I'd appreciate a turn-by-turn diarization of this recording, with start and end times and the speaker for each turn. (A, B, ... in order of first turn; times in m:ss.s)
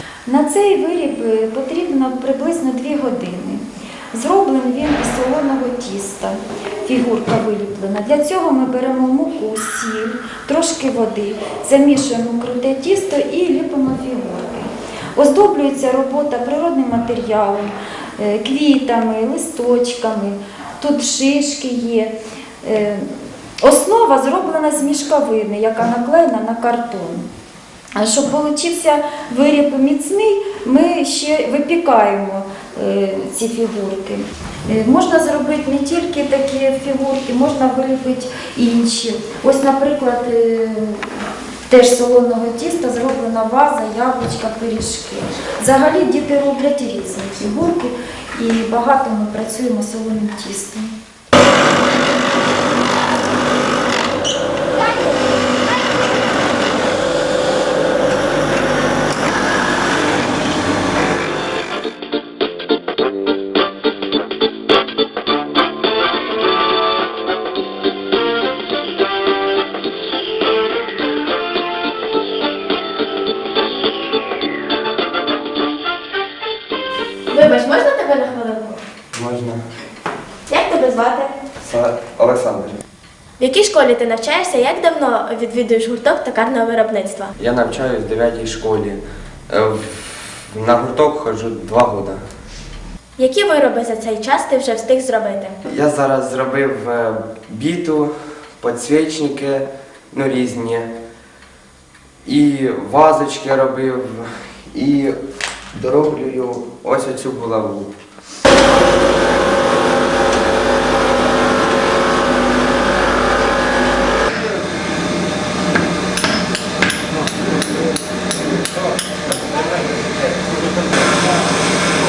0:00.3-0:23.1 A
0:23.6-0:27.2 A
0:28.0-0:50.9 A
1:17.3-1:18.8 B
1:19.1-1:19.6 C
1:20.5-1:21.3 B
1:21.6-1:22.8 C
1:23.4-1:27.3 B
1:27.4-1:32.2 C
1:33.2-1:35.6 B
1:35.7-1:40.9 C
1:42.2-1:45.2 C
1:45.8-1:47.9 C